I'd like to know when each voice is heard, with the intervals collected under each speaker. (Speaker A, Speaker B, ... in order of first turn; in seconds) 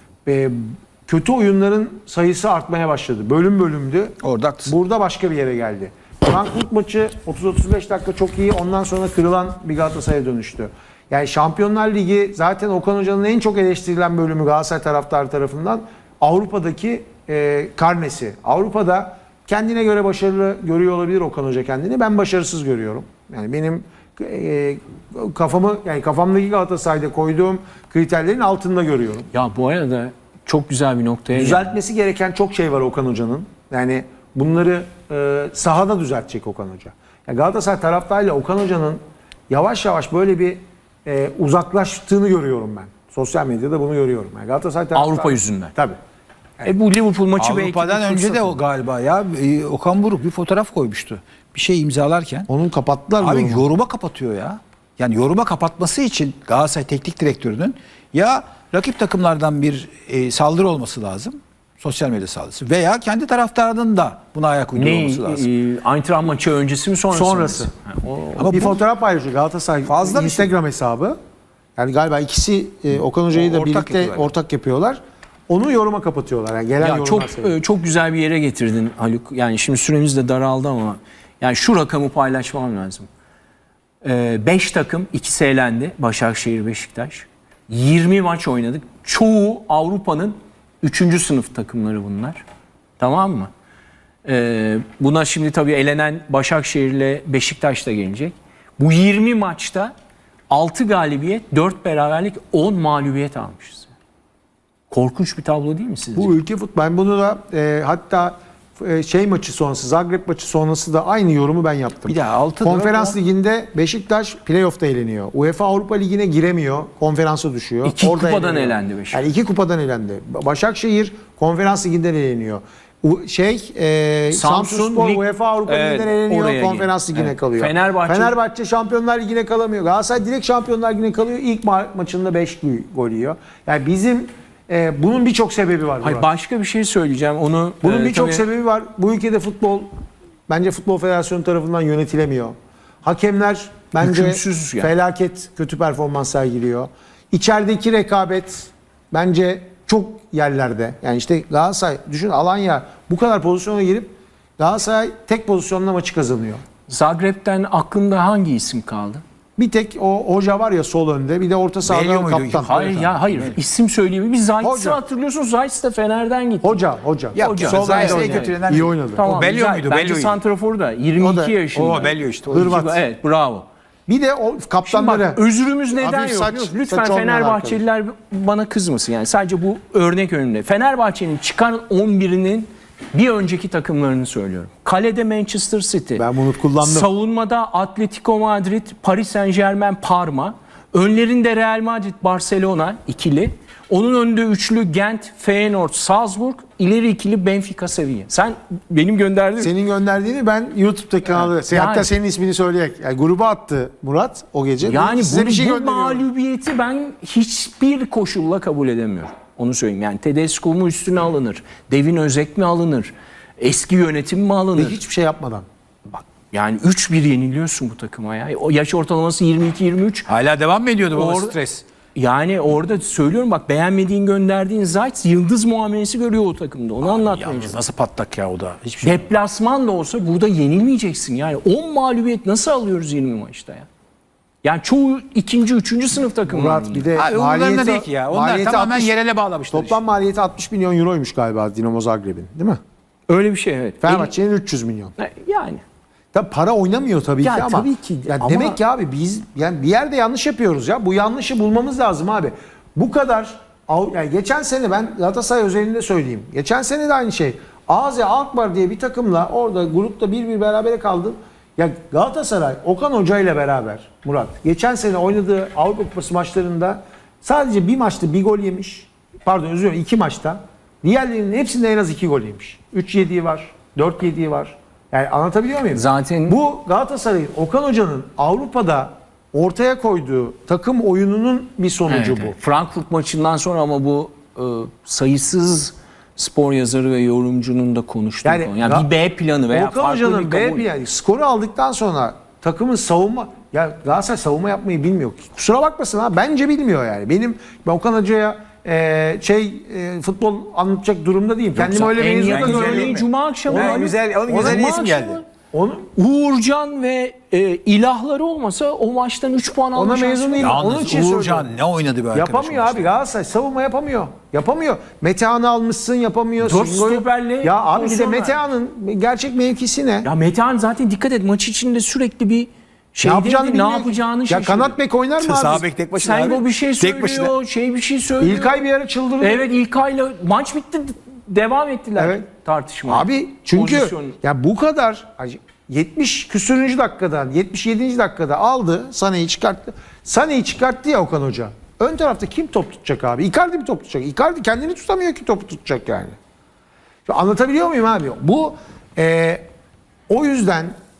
Speaker A: 0.3-29.3, 31.3-46.0, 52.5-53.7, 67.1-67.7, 68.5-71.2, 71.8-77.5, 106.2-136.3, 137.8-139.9, 140.5-156.6, 159.6-162.7, 164.6-165.0, 166.6-169.3, 171.2-171.6, 172.5-173.0, 174.1-175.4, 175.9-177.8, 186.2-187.1, 199.6-206.2, 214.8-215.7, 236.5-239.2, 239.7-242.8, 244.0-245.2, 246.3-282.6, 288.4-289.1, 289.7-305.0, 305.7-306.1, 309.9-311.7, 312.3-320.3, 323.2-325.9, 328.4-329.7, 332.2-332.4, 333.1-346.3, 347.3-349.7, 350.3-350.9
Speaker B: 4.2-4.8, 47.4-52.5, 53.2-65.5, 68.4-68.8, 69.8-70.5, 73.3-74.3, 112.1-113.2, 161.8-163.6, 167.3-170.4, 171.8-172.8, 220.3-221.8, 227.0-229.3, 237.2-240.0, 301.9-305.4, 310.6-313.1, 325.4-327.5
Speaker C: 29.3-31.7, 44.9-45.7, 46.6-48.6, 64.8-68.6, 76.8-83.1, 84.0-92.4, 93.0-93.5, 94.2-99.9, 100.5-103.9, 104.9-106.3, 117.8-119.2, 124.3-128.3, 136.0-138.4, 144.0-144.9, 156.9-159.2, 162.6-166.8, 167.4-168.6, 169.1-173.7, 174.9-186.2, 186.8-199.8, 201.3-202.1, 204.8-215.0, 216.1-220.3, 221.1-221.6, 222.2-227.8, 229.0-233.9, 234.6-237.1, 243.3-244.3, 245.2-245.8, 247.4-248.8, 275.9-276.6, 282.1-290.9, 301.8-305.4, 306.2-310.8, 316.6-318.6, 320.2-325.0, 326.1-328.7, 329.4-334.4